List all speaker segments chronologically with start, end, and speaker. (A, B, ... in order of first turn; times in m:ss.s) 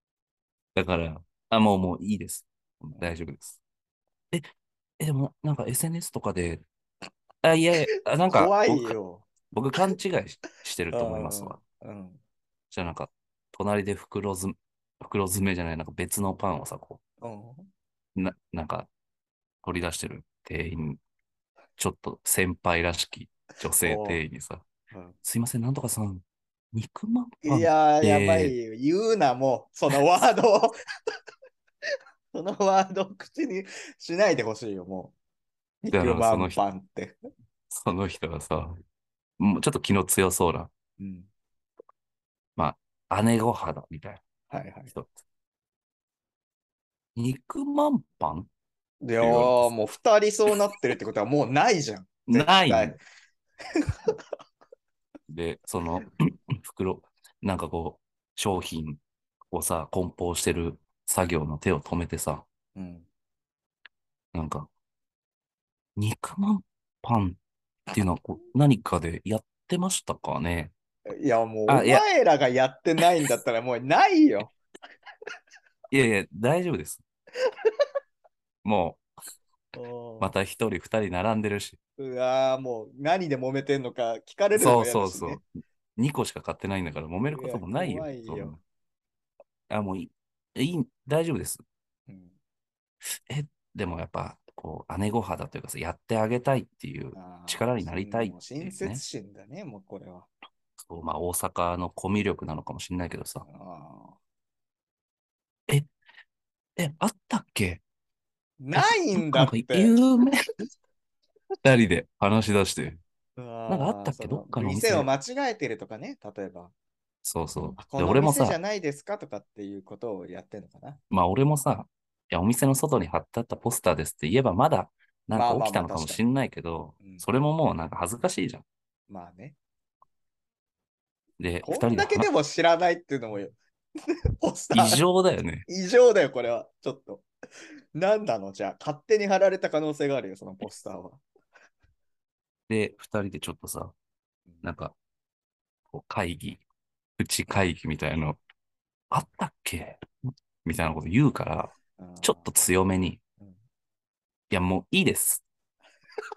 0:00.7-0:03.6 A
0:05.0-0:06.6 A
0:07.4-0:09.0 A
0:08.2-0:09.3 B
0:09.5-0:11.6 A
0:10.9-0:12.2 B
0:12.7-0:17.0 A
0:17.2-0:17.7 B
0:18.1-0:18.9 A
0:19.6-0:21.0 A
0:21.8-0:24.6 A
0:23.8-0:24.2 B
0:24.9-0:25.2 B
0:25.2-0:28.5 A
0:27.4-0:30.7 B
0:32.3-0:35.1 B
0:35.8-0:37.2 B
0:35.9-0:36.6 A
0:37.7-0:38.8 A
0:39.4-0:40.7 A
0:41.0-0:41.3 B
0:42.6-0:44.2 A
0:44.5-0:44.9 B
0:47.2-0:48.5 A
0:49.0-0:53.0 B
0:49.2-0:49.7 A
0:52.3-0:53.0 A
0:53.8-0:54.1 B
0:55.3-1:02.4 A
1:02.7-1:03.1 B
1:04.3-1:04.7 A
1:06.0-1:07.4 A
1:07.9-1:10.7 A
1:11.1-1:14.5 B
1:11.7-1:12.0 A
1:15.9-1:17.0 A
1:18.6-1:19.0 A
1:19.7-1:20.3 B
1:20.2-1:21.8 A
1:22.0-1:25.4 B
1:24.5-1:25.4 A
1:26.0-1:28.6 A
1:27.3-1:28.6 B
1:29.7-1:31.6 A
1:32.1-1:32.4 B
1:33.3-1:39.0 A
1:37.1-1:40.3 B
1:40.8-1:43.4 A
1:43.4-1:44.2 B
1:46.8-1:47.8 A
1:48.6-1:50.0 B
1:48.7-1:50.5 A
1:51.6-1:53.0 A
1:53.4-1:56.7 B
1:53.7-1:55.1 A
1:57.2-1:58.6 A
1:57.8-2:01.0 B
2:01.1-2:08.6 A
2:05.3-2:06.2 B
2:09.1-2:09.6 B
2:11.4-2:12.3 A
2:11.6-2:15.0 B
2:14.7-2:15.6 A
2:15.7-2:17.2 B
2:17.9-2:21.2 B
2:22.7-2:23.9 A
2:24.6-2:24.9 A
2:25.9-2:26.6 A
2:27.2-2:28.4 A
2:29.1-2:30.0 A
2:30.6-2:33.2 A
2:32.0-2:32.5 B
2:34.5-2:35.4 A